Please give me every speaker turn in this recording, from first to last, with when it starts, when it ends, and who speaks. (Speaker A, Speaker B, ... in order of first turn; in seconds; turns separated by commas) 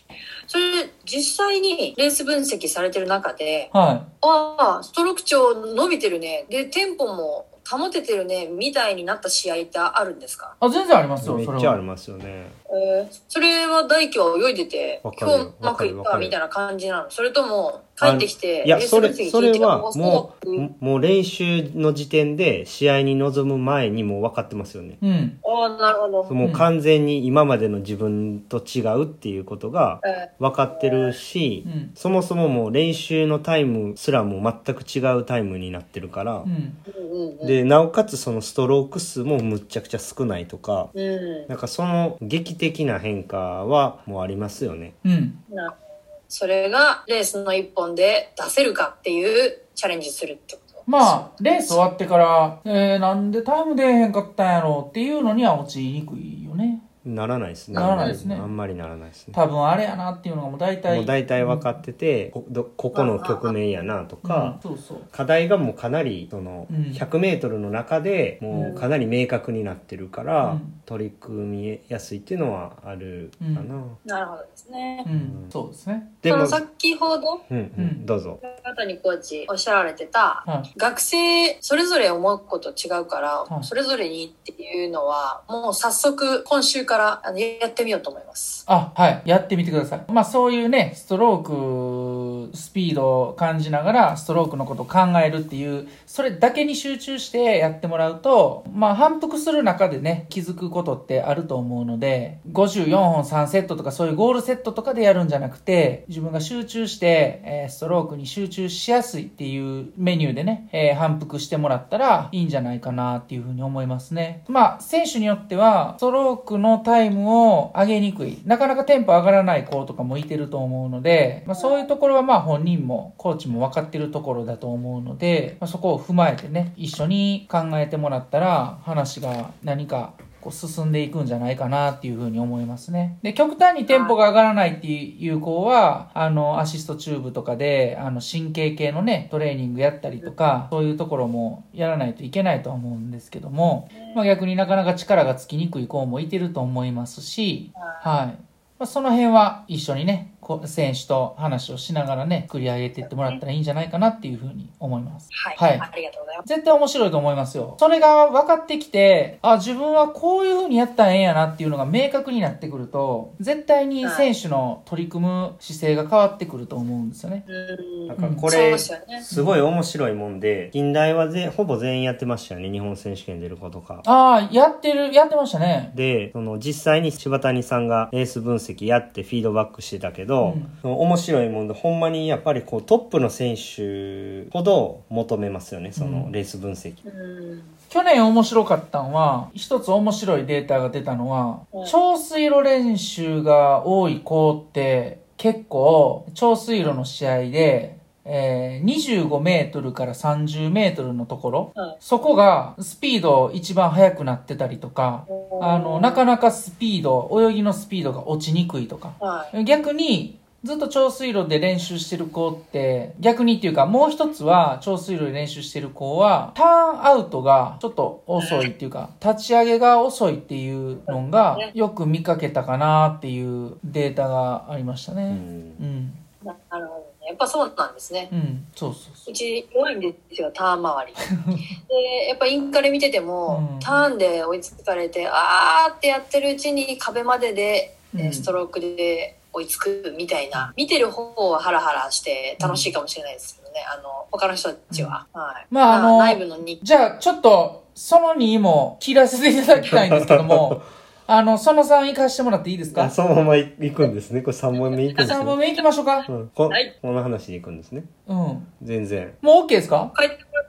Speaker A: 0.5-10.5, Speaker B: 3.7-4.1, Speaker B: 10.6-11.8, Speaker C: 11.2-12.6, Speaker A: 12.7-20.7, Speaker C: 15.0-16.3, Speaker C: 18.0-25.0, Speaker B: 25.0-25.4, Speaker A: 25.4-26.4, Speaker C: 26.3-36.5, Speaker B: 26.4-26.7, Speaker A: 30.0-31.2, Speaker B: 31.6-31.9, Speaker B: 36.4-36.8, Speaker A: 36.9-37.6, Speaker C: 37.4-40.9, Speaker A: 40.9-41.5, Speaker C: 41.5-45.0, Speaker B: 45.0-45.4, Speaker A: 45.5-45.7, Speaker A: 46.3-51.8, Speaker B: 50.9-56.8, Speaker C: 57.0-59.4, Speaker B: 57.7-58.5, Speaker B: 59.3-61.8, Speaker C: 60.9-64.6, Speaker A: 62.9-63.5, Speaker B: 64.2-65.1, Speaker C: 65.1-74.0, Speaker B: 66.7-67.0, Speaker B: 68.5-68.8, Speaker A: 68.6-68.8, Speaker B: 70.4-70.7, Speaker B: 73.4-73.7, Speaker A: 74.0-75.1, Speaker B: 75.0-76.2, Speaker C: 75.1-75.5, Speaker C: 76.2-76.6, Speaker A: 76.2-77.4, Speaker C: 77.5-78.4, Speaker B: 77.8-78.1, Speaker A: 78.4-88.6, Speaker B: 88.7-155.8, Speaker A: 121.5-121.9, Speaker A: 133.9-134.2, Speaker A: 143.9-144.2, Speaker A: 147.7-148.1, Speaker A: 153.0-153.4, Speaker A: 155.3-156.4, Speaker B: 156.4-167.4, Speaker A: 164.0-164.3, Speaker A: 167.4-169.3, Speaker C: 168.1-174.0, Speaker B: 168.2-168.5, Speaker B: 169.3-169.6, Speaker B: 174.0-175.9, Speaker C: 175.9-187.0, Speaker B: 180.4-180.8, Speaker B: 185.9-186.3, Speaker A: 187.0-187.8, Speaker B: 187.9-226.2, Speaker A: 205.3-206.2, Speaker A: 209.2-209.5, Speaker A: 218.4-218.7, Speaker A: 221.1-221.7, Speaker C: 225.3-225.8, Speaker A: 226.4-228.3, Speaker B: 228.3-229.3, Speaker A: 229.2-231.3, Speaker B: 231.2-231.7, Speaker A: 231.8-246.8, Speaker B: 233.5-234.1, Speaker B: 238.1-238.5, Speaker B: 242.6-242.9, Speaker B: 244.9-245.2, Speaker B: 245.7-253.1, Speaker C: 249.8-250.8, Speaker C: 252.9-255.6, Speaker A: 254.9-255.4, Speaker B: 255.2-256.2, Speaker C: 256.3-258.1, Speaker B: 258.3-258.7, Speaker C: 258.8-259.4, Speaker B: 259.4-260.1, Speaker A: 260.1-260.4